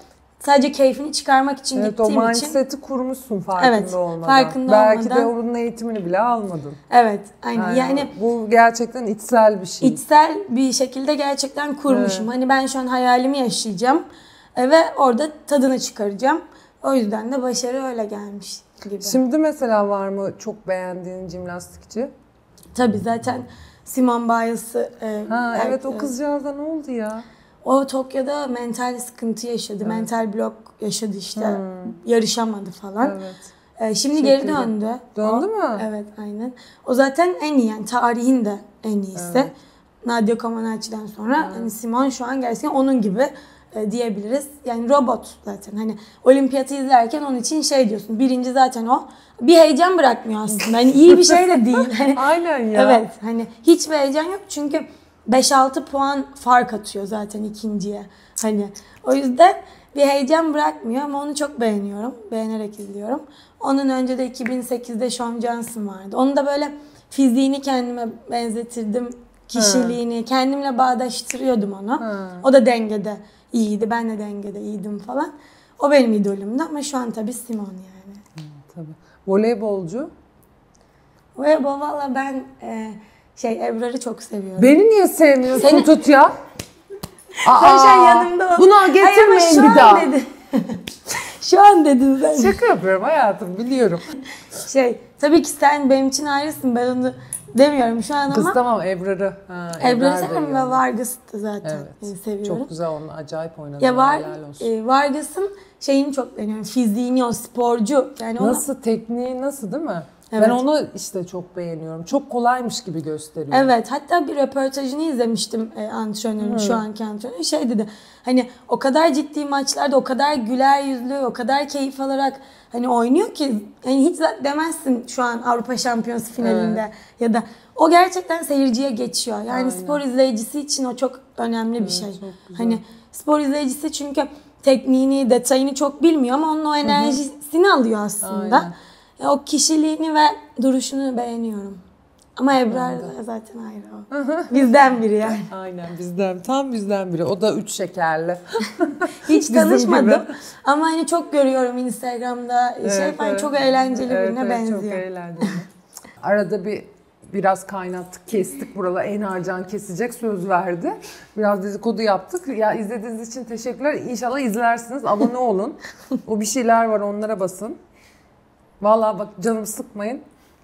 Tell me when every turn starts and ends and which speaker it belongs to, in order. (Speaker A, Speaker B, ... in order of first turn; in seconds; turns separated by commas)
Speaker A: 0.4-2.6, Speaker B: 1.7-6.8, Speaker A: 3.6-5.3, Speaker A: 6.9-8.1, Speaker B: 7.5-10.0, Speaker A: 9.8-14.0, Speaker B: 11.9-12.3, Speaker A: 14.6-19.2, Speaker B: 19.0-22.1, Speaker A: 22.7-26.1, Speaker B: 25.3-27.2, Speaker A: 27.6-33.1, Speaker B: 31.4-32.0, Speaker B: 33.0-33.5, Speaker A: 33.8-39.5, Speaker B: 34.1-35.9, Speaker B: 39.1-39.5, Speaker A: 40.0-52.2, Speaker B: 41.4-41.7, Speaker B: 50.5-53.0, Speaker A: 52.7-78.2, Speaker B: 69.5-70.0, Speaker B: 72.0-72.4, Speaker B: 78.4-80.1, Speaker A: 81.3-84.7, Speaker B: 84.6-86.3, Speaker A: 85.5-85.9, Speaker B: 87.4-90.1, Speaker A: 87.5-92.6, Speaker B: 92.3-94.0, Speaker A: 94.7-98.6, Speaker B: 98.3-100.8, Speaker A: 99.8-102.7, Speaker B: 101.6-104.7, Speaker A: 103.8-108.6, Speaker B: 108.4-113.7, Speaker A: 110.3-110.6, Speaker A: 113.5-141.8, Speaker B: 116.4-116.8, Speaker B: 126.4-126.8, Speaker B: 129.5-130.0, Speaker B: 131.8-132.8, Speaker B: 136.9-137.2, Speaker B: 138.2-138.7, Speaker A: 142.4-145.5, Speaker B: 142.6-143.1, Speaker B: 144.1-144.7, Speaker B: 145.3-150.3, Speaker A: 149.2-155.5, Speaker B: 152.8-155.7, Speaker B: 156.2-167.8, Speaker B: 168.8-170.2